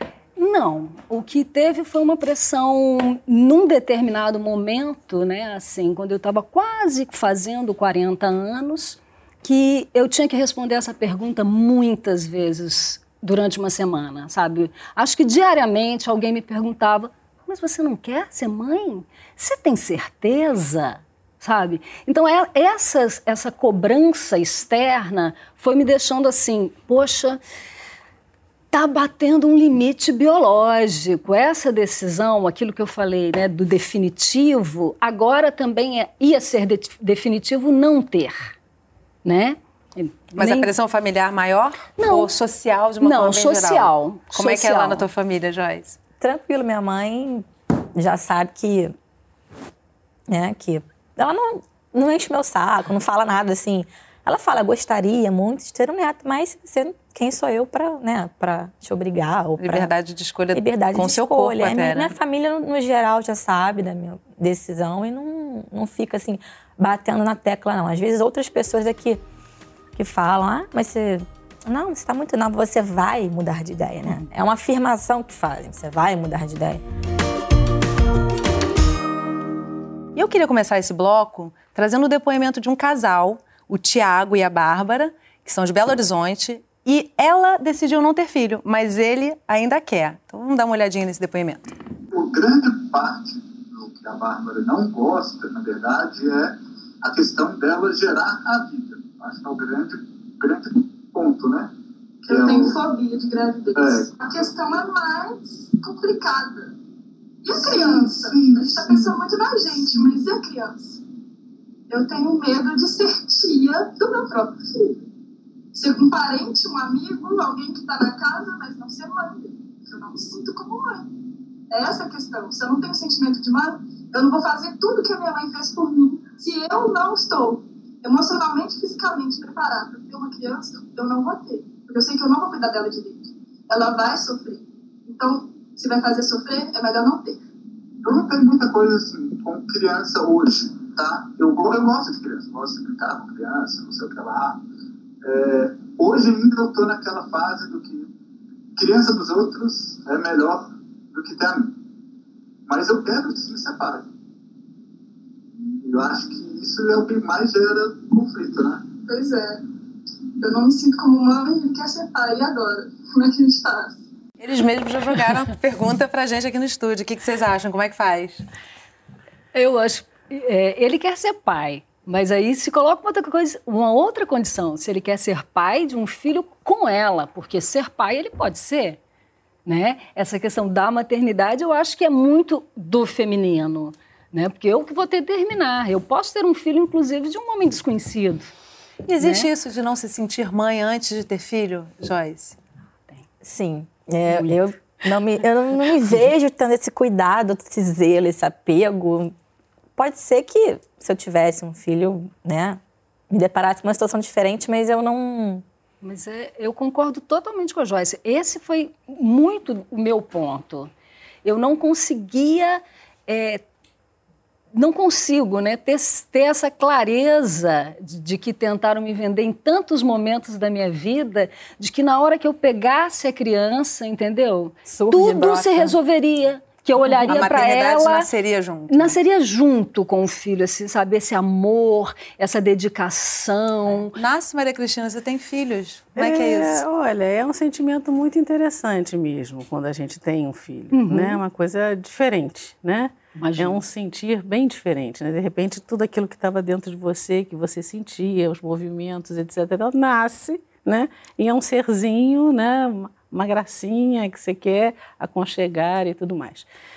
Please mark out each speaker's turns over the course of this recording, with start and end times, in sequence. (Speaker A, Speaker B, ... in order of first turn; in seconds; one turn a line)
Speaker A: 0.4-27.4
Speaker A: 28.7-38.5
Speaker A: 39.2-40.7
Speaker B: 40.3-46.0
Speaker A: 42.0-42.3
Speaker A: 43.0-45.1
Speaker C: 46.2-48.9
Speaker C: 50.3-59.9
Speaker B: 59.6-62.1
Speaker C: 60.5-69.2
Speaker C: 70.0-76.8
Speaker B: 80.2-91.7
Speaker D: 92.1-101.7
Speaker D: 102.3-102.8
Speaker E: 102.3-106.8
Speaker D: 103.8-104.1
Speaker E: 107.4-111.0
Speaker D: 107.5-109.2
Speaker E: 111.9-115.0
Speaker E: 115.7-121.1
Speaker E: 121.7-137.4
Speaker D: 138.0-144.6
Speaker D: 145.2-148.1
Speaker D: 148.8-151.7
Speaker D: 152.7-154.1
Speaker D: 155.6-158.9
Speaker E: 159.1-159.6
Speaker E: 160.4-164.0
Speaker B: 164.4-168.4
Speaker A: 169.5-179.0
Speaker A: 179.7-188.5
Speaker B: 189.1-192.6
Speaker A: 189.2-189.5
Speaker C: 193.4-199.3
Speaker A: 194.3-194.6
Speaker C: 200.0-205.6
Speaker A: 206.0-210.9
Speaker A: 211.4-213.6
Speaker A: 214.7-228.3
Speaker C: 224.9-225.2
Speaker B: 224.9-225.9
Speaker B: 227.1-229.2
Speaker A: 228.9-234.2
Speaker B: 234.2-236.8
Speaker F: 236.2-256.7
Speaker A: 240.9-241.4
Speaker A: 243.4-243.8